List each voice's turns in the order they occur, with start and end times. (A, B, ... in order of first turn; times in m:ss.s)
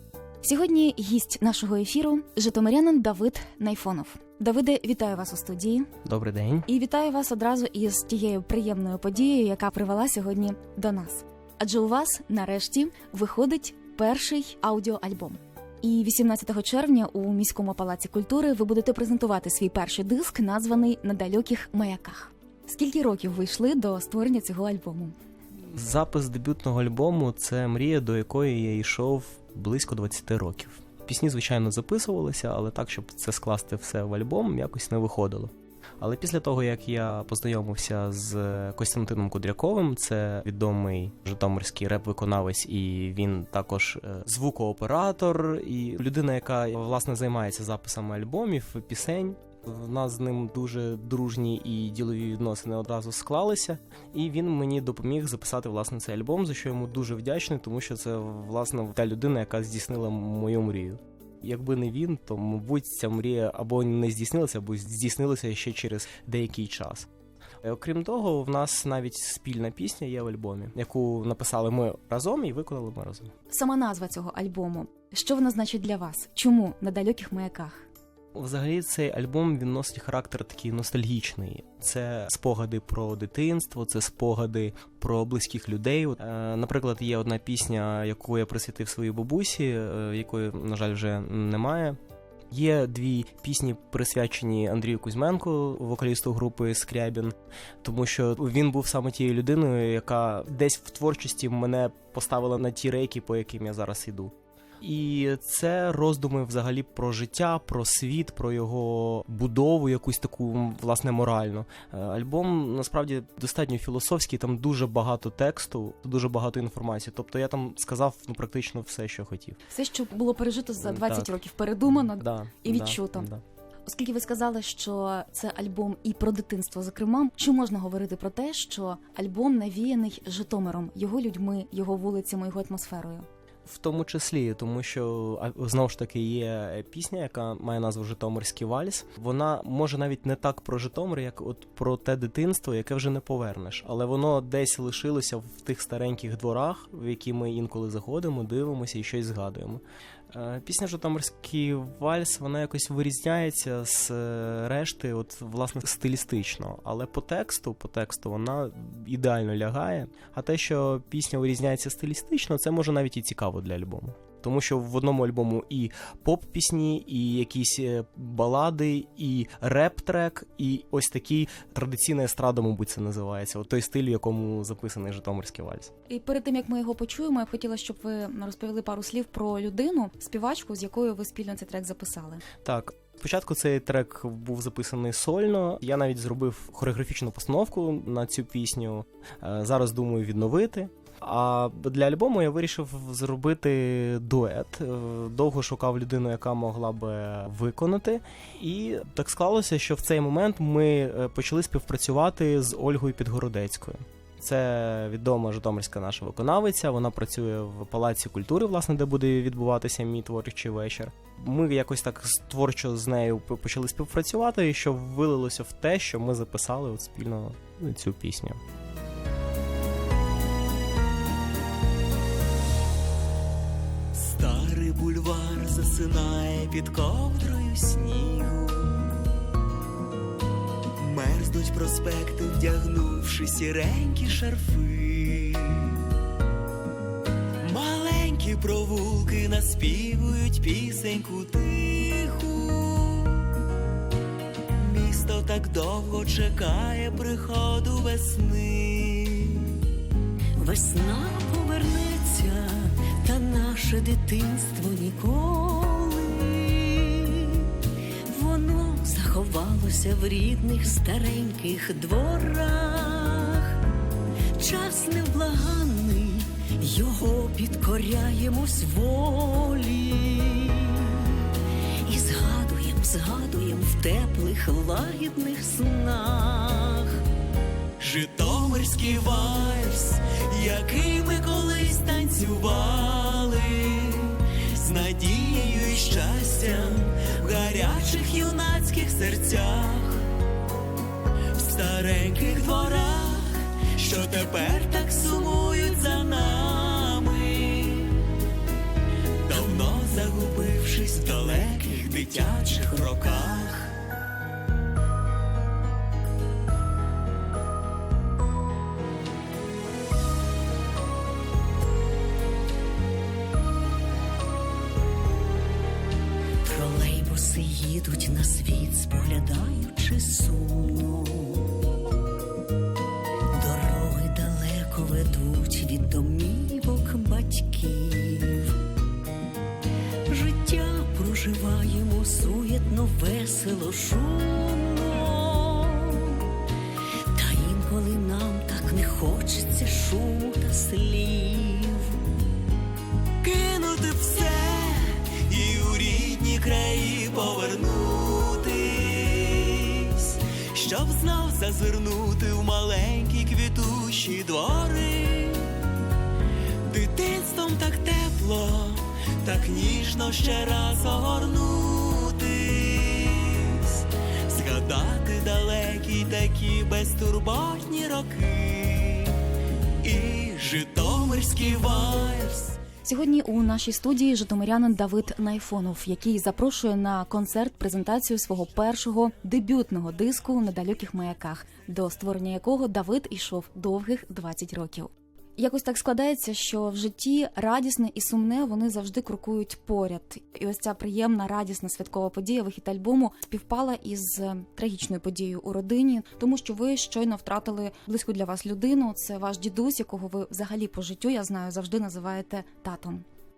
0:00.4-0:05.9 A
0:06.0-0:06.7 B
0:06.7-0:25.1 A
0:25.7-1:07.1 B
1:07.6-1:13.3 B
1:13.5-1:17.9 A
1:18.4-1:32.0 B
1:32.5-1:59.6 B
1:59.7-2:03.3 A
2:00.8-2:01.4 B
2:01.9-2:03.4 B
2:03.9-2:13.3 A
2:13.7-2:55.9 B
2:56.1-3:02.4 A
3:02.6-3:38.6 B
3:44.1-3:49.1 C
3:51.0-3:56.0 C
3:57.6-4:03.5 C
4:04.8-4:09.8 C
4:10.6-4:23.8 D
4:24.6-4:37.2 D
4:38.0-4:50.3 C
4:51.5-4:58.3 C
4:59.4-5:03.9 C
5:16.6-5:21.8 D
5:23.5-5:28.8 D
5:30.3-5:36.6 D
5:37.3-5:42.3 D
5:43.4-5:55.7 C
5:56.8-6:09.4 C
6:10.0-6:12.8 C
6:13.0-6:43.2 A